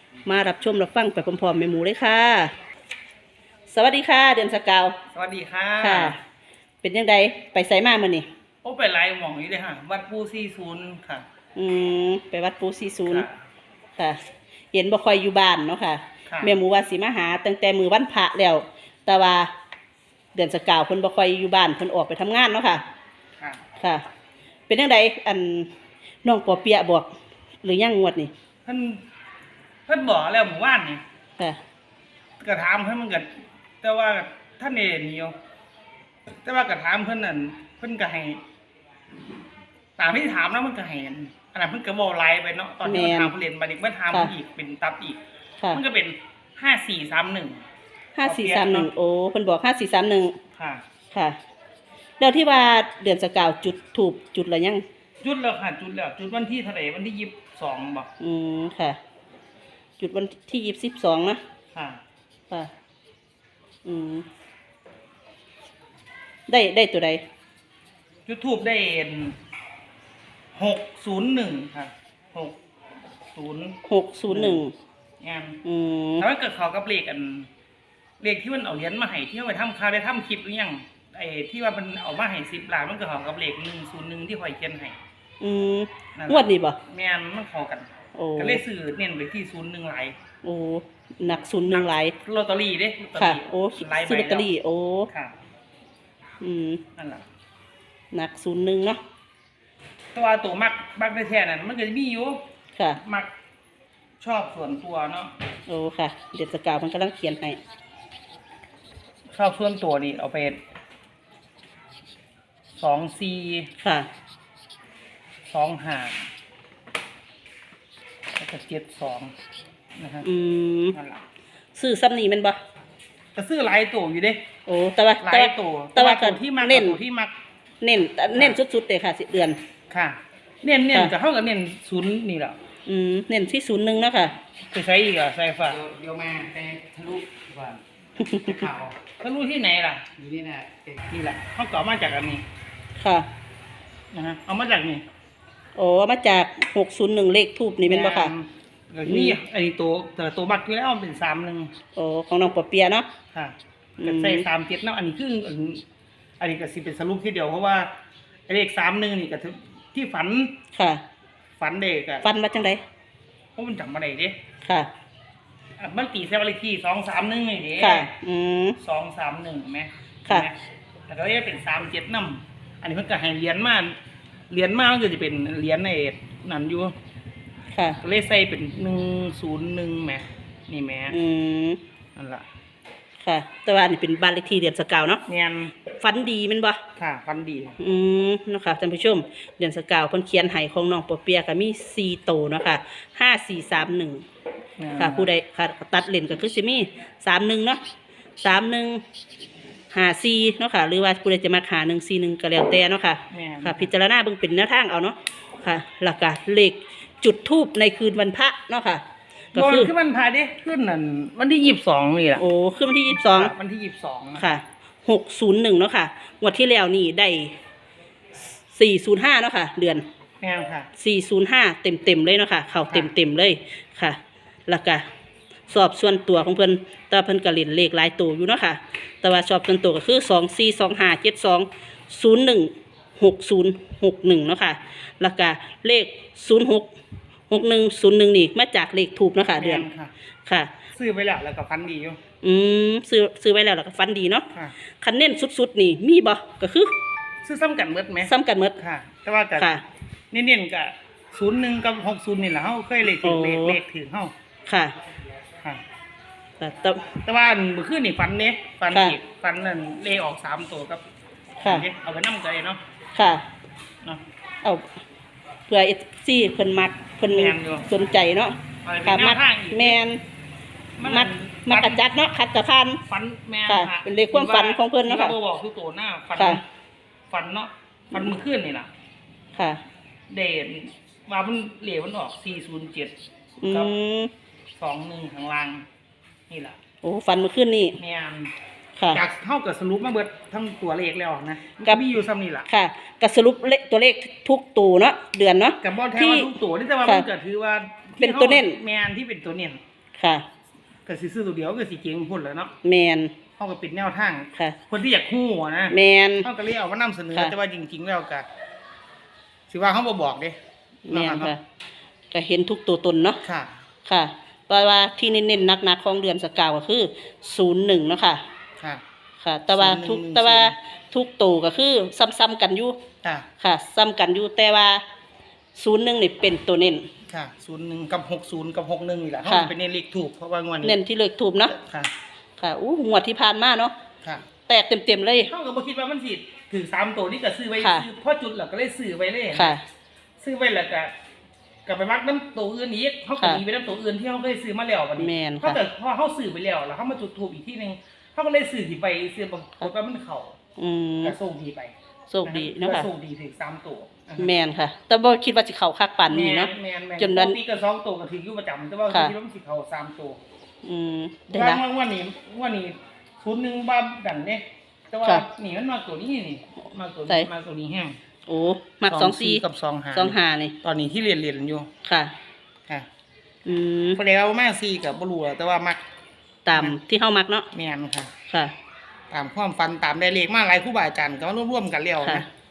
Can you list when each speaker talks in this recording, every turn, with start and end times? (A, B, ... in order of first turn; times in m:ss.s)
0:00.3-0:02.5 A
0:03.7-0:05.0 A
0:05.1-0:06.2 B
0:05.8-0:06.2 A
0:06.8-0:08.3 A
0:08.6-0:11.2 B
0:11.6-0:13.3 A
0:13.1-0:13.3 B
0:14.7-0:19.5 A
0:16.3-0:16.6 B
0:20.4-0:22.8 A
0:23.8-0:24.0 A
0:24.7-0:25.7 A
0:26.2-0:27.1 A
0:27.6-0:28.3 A
0:28.6-0:29.0 B
0:29.9-0:31.0 B
0:32.4-0:33.3 B
0:33.8-0:35.4 B
0:36.4-0:38.4 B
0:40.0-0:47.6 B
0:42.8-0:43.3 A
0:48.2-0:50.4 A
0:48.2-0:48.9 B
0:50.6-0:50.8 B
0:51.1-0:51.4 A
0:52.2-0:54.8 A
0:55.2-0:58.1 B
0:58.2-0:59.0 A
1:00.0-1:01.4 A
1:01.7-1:02.0 B
1:03.8-1:04.3 A
1:06.5-1:07.2 A
1:08.3-1:09.4 B
1:10.6-1:12.6 B
1:13.3-1:14.6 B
1:13.8-1:14.7 A
1:15.2-1:15.6 B
1:15.6-1:16.2 A
1:16.2-1:17.5 B
1:18.2-1:25.0 B
1:25.4-1:26.8 A
1:26.2-1:30.2 B
1:28.2-1:28.6 A
1:30.4-1:32.2 A
1:31.4-1:34.5 B
1:33.2-1:35.1 A
1:36.4-1:36.8 A
1:37.0-1:37.2 B
1:38.1-1:39.0 A
1:40.1-1:42.4 B
1:43.0-1:43.3 B
1:44.2-1:45.3 B
1:45.7-1:47.6 A
1:49.3-1:50.6 B
1:52.8-1:53.7 B
1:53.8-1:54.1 A
1:55.5-1:56.3 B
1:58.4-1:59.3 B
2:00.0-2:00.3 B
2:00.2-2:01.0 A
2:00.9-2:01.2 B
2:01.8-2:02.6 A
2:03.4-2:04.4 B
2:04.7-2:07.0 A
2:05.2-2:07.3 B
2:07.8-2:09.6 A
2:09.9-2:12.6 B
2:12.9-2:14.4 A
2:14.7-2:15.9 B
2:15.8-2:17.8 C
2:18.2-2:18.6 A
2:18.6-2:18.9 C
2:19.0-2:20.2 B
2:20.2-2:21.0 C
2:21.1-2:22.4 B
2:23.0-2:23.3 A
2:24.1-2:25.0 B
2:25.8-2:28.3 A
2:27.9-2:31.7 B
2:29.1-2:29.4 A
2:32.0-2:33.1 A
2:33.3-2:35.8 B
2:34.0-2:34.4 A
2:36.4-2:37.9 B
2:38.5-2:40.5 B
2:40.7-2:41.0 A
2:41.6-2:42.2 B
2:42.2-2:42.8 A
2:43.6-2:44.4 B
2:44.6-2:44.9 A
2:45.8-2:48.1 B
2:47.8-2:48.8 A
2:48.8-2:50.6 B
2:51.1-2:54.0 B
2:54.5-2:56.9 B
2:57.7-2:58.0 A
2:58.0-3:01.2 B
3:01.1-3:01.8 A
3:02.2-3:02.5 B
3:03.2-3:05.2 A
3:05.3-3:05.7 B
3:05.9-3:06.8 A
3:07.0-3:07.8 B
3:07.8-3:14.2 A
3:14.8-3:15.3 B
3:15.0-3:17.8 A
3:18.4-3:19.0 A
3:19.9-3:29.0 A
3:23.3-3:23.9 B
3:29.5-3:29.9 A
3:29.6-3:32.4 B
3:32.4-3:33.5 A
3:33.1-3:34.5 B
3:34.4-3:37.6 A
3:38.4-3:40.0 A
3:40.4-3:40.9 B
3:41.0-3:45.0 A
3:45.7-3:56.9 A
3:57.5-3:59.8 A
3:59.5-4:00.1 B
4:00.5-4:00.7 A
4:00.9-4:02.2 B
4:02.4-4:04.5 A
4:05.0-4:06.9 A
4:07.4-4:09.7 B
4:08.2-4:08.8 A
4:09.6-4:09.8 A
4:10.3-4:14.3 B
4:13.2-4:13.8 A
4:14.7-4:15.0 A
4:16.6-4:17.0 A
4:17.1-4:21.0 B
4:18.9-4:19.2 A
4:21.6-4:21.9 A
4:21.6-4:22.8 B
4:23.2-4:23.4 A
4:24.6-4:25.0 A
4:25.7-4:30.2 A
4:27.3-4:27.9 B
4:28.8-4:30.0 B
4:31.0-4:32.0 B
4:31.0-4:33.0 A
4:33.1-4:36.6 B
4:33.7-4:35.4 A
4:36.4-4:36.6 A
4:37.3-4:38.9 B
4:39.6-4:39.8 A
4:40.3-4:43.2 B
4:43.6-4:44.3 A
4:44.8-4:45.8 B
4:46.5-4:46.8 B
4:47.0-4:48.0 A
4:48.0-4:48.5 B
4:49.1-4:52.7 B
4:52.7-4:56.5 A
4:55.8-4:59.8 B
4:58.2-4:58.8 A
5:00.2-5:00.5 A
5:01.1-5:02.7 B
5:02.8-5:03.4 A
5:03.6-5:08.5 B
5:05.9-5:06.5 A
5:09.7-5:10.6 B
5:11.1-5:11.6 A
5:11.1-5:11.6 B
5:12.3-5:13.4 A
5:13.4-5:13.7 B
5:14.1-5:18.4 A
5:19.4-5:23.0 A
5:19.7-5:20.7 B
5:23.6-5:25.0 A
5:25.8-5:27.1 A
5:27.3-5:31.0 B
5:29.5-5:29.7 A
5:30.8-5:31.8 A
5:31.8-5:32.1 B
5:32.6-5:33.9 A
5:34.7-5:35.5 A
5:35.5-5:39.7 B
5:37.8-5:38.1 A
5:39.5-5:39.8 A
5:40.4-5:41.1 B
5:41.8-5:50.6 B
5:45.2-5:45.8 A
5:50.8-5:51.4 A
5:51.2-5:54.5 B
5:52.3-5:53.1 A
5:54.4-5:57.6 A
5:56.3-6:00.4 B
6:00.8-6:01.8 A
6:01.5-6:08.2 B
6:08.5-6:09.6 A
6:09.1-6:11.9 B
6:10.2-6:10.8 A
6:12.0-6:12.3 A
6:13.7-6:14.2 A
6:14.2-6:16.0 B
6:16.6-6:17.7 A
6:17.7-6:18.3 B
6:18.5-6:18.7 A
6:19.3-6:22.5 B
6:22.2-6:22.5 A